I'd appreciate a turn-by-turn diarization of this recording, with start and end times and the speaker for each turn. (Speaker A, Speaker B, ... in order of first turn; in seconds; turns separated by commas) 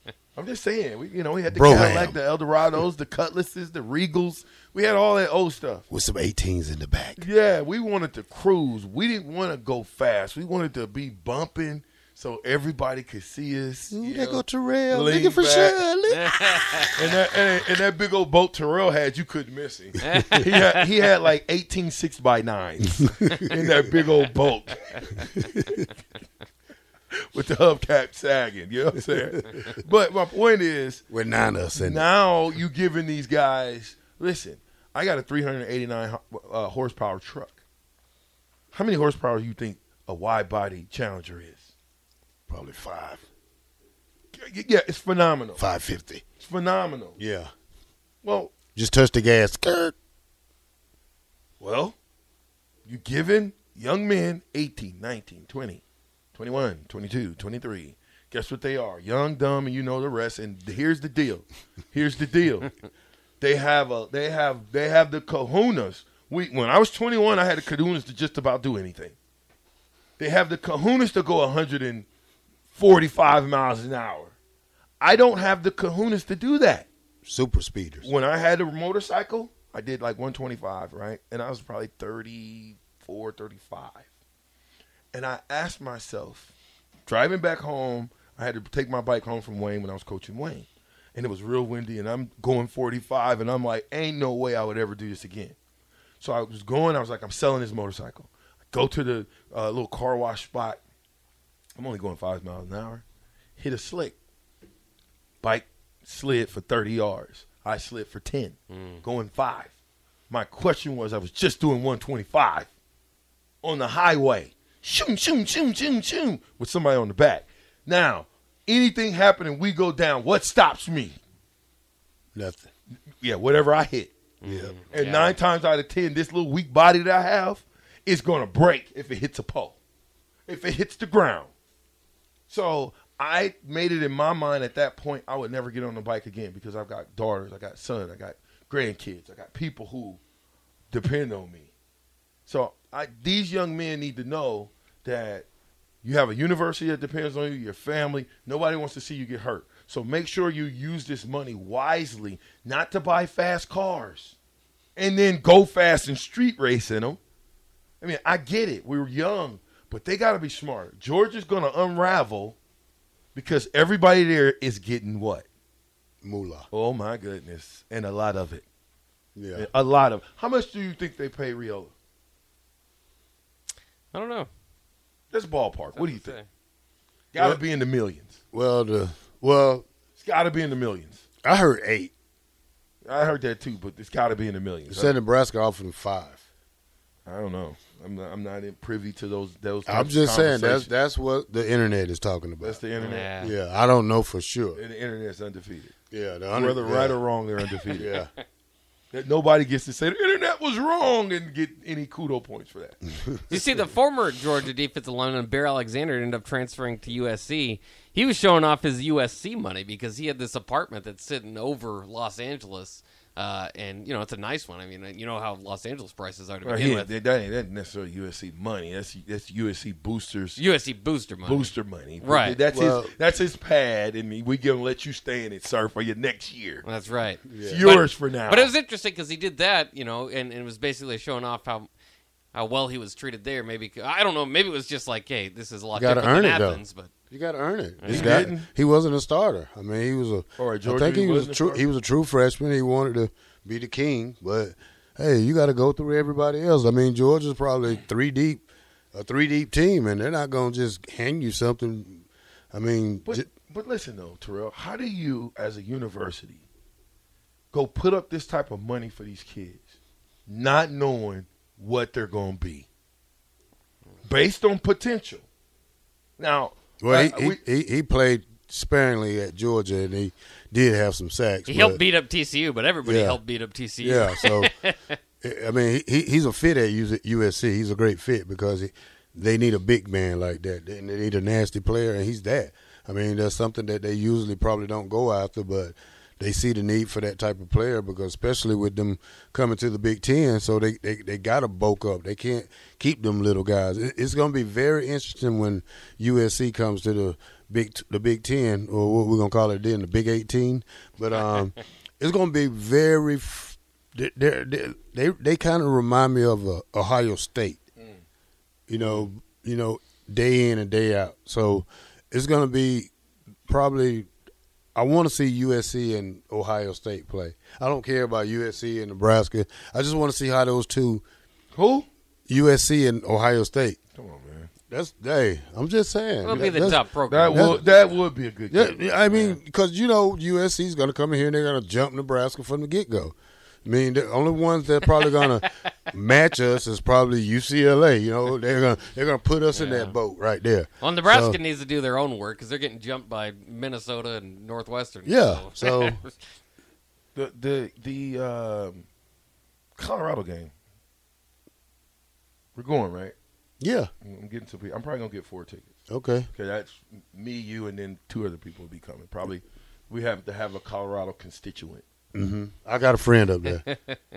Speaker A: 0.3-5.8, Speaker B: 1.5-2.2, Speaker B: 5.9-7.3, Speaker A: 7.2-15.8, Speaker B: 13.9-16.9, Speaker C: 16.1-16.9, Speaker A: 16.9-25.2, Speaker C: 20.0-20.8, Speaker B: 20.0-20.4, Speaker B: 25.3-25.9, Speaker A: 27.1-31.1, Speaker B: 29.1-29.6, Speaker B: 31.1-32.0, Speaker A: 31.8-37.6, Speaker A: 38.7-41.7, Speaker B: 42.5-43.2, Speaker A: 44.3-45.6, Speaker B: 45.6-46.2, Speaker A: 46.4-47.2, Speaker B: 47.2-47.5, Speaker A: 48.2-48.5, Speaker B: 48.7-49.9, Speaker A: 51.6-52.0, Speaker A: 52.8-55.8, Speaker A: 56.3-62.7, Speaker A: 63.4-69.2, Speaker A: 70.2-72.1, Speaker A: 72.7-74.3, Speaker A: 75.0-76.9, Speaker B: 77.2-78.1, Speaker A: 78.0-84.0, Speaker A: 85.1-86.5, Speaker A: 87.0-95.5, Speaker A: 96.2-100.8, Speaker A: 101.7-103.0, Speaker A: 103.5-104.2, Speaker A: 105.4-109.7, Speaker C: 108.7-109.0, Speaker A: 110.3-112.7, Speaker A: 113.6-121.2, Speaker B: 122.3-122.7, Speaker A: 123.2-124.1, Speaker C: 124.4-125.4, Speaker B: 124.4-124.8, Speaker A: 124.9-129.8, Speaker A: 130.5-131.5, Speaker A: 132.5-140.2, Speaker A: 140.9-141.7, Speaker A: 142.4-145.5, Speaker A: 146.0-154.4, Speaker A: 154.9-157.2, Speaker A: 158.0-162.6, Speaker A: 163.3-165.5, Speaker B: 166.2-166.7, Speaker A: 166.7-168.7, Speaker B: 169.3-169.7, Speaker A: 169.5-171.9, Speaker C: 174.1-174.5, Speaker A: 175.3-176.4, Speaker C: 175.9-176.4, Speaker A: 177.3-178.4, Speaker B: 177.3-177.6, Speaker B: 178.5-179.8, Speaker A: 180.1-181.2, Speaker B: 181.4-182.1, Speaker A: 183.0-185.2, Speaker B: 184.9-186.4, Speaker A: 187.2-190.9, Speaker B: 189.8-194.8, Speaker A: 192.6-193.3, Speaker C: 193.0-193.5, Speaker A: 194.7-195.9, Speaker B: 196.1-197.2, Speaker A: 196.5-198.1, Speaker C: 197.9-198.3, Speaker B: 197.9-198.3, Speaker A: 199.1-203.0, Speaker B: 203.3-203.7, Speaker C: 203.5-217.1, Speaker A: 216.6-220.6, Speaker C: 220.6-222.6, Speaker A: 221.4-226.8, Speaker B: 222.7-223.1, Speaker C: 226.8-231.9, Speaker B: 227.4-228.0, Speaker A: 227.6-228.7, Speaker C: 232.5-237.1, Speaker B: 235.9-253.5, Speaker C: 238.0-238.5, Speaker A: 238.0-238.7, Speaker A: 240.6-241.8, Speaker A: 253.2-256.6, Speaker A: 257.7-262.9, Speaker A: 264.2-265.4, Speaker A: 266.4-267.6, Speaker B: 267.0-272.0, Speaker C: 271.6-275.1, Speaker B: 273.0-273.4, Speaker B: 274.0-274.7, Speaker B: 275.4-307.8, Speaker B: 308.9-313.1, Speaker B: 313.7-314.3, Speaker B: 314.9-321.2, Speaker A: 321.7-322.1, Speaker B: 322.5-324.0, Speaker A: 324.1-324.7, Speaker B: 324.9-327.8, Speaker C: 326.4-327.9, Speaker A: 326.5-329.0, Speaker B: 328.7-341.6, Speaker C: 329.3-329.6, Speaker C: 335.0-335.4, Speaker C: 339.7-340.2, Speaker C: 341.0-346.4, Speaker B: 345.2-346.2, Speaker A: 347.3-349.1, Speaker A: 349.9-350.7, Speaker A: 352.7-353.3, Speaker B: 353.8-354.1, Speaker A: 354.2-355.9, Speaker B: 356.1-356.5, Speaker A: 356.5-362.0, Speaker B: 362.3-363.8, Speaker C: 363.7-364.2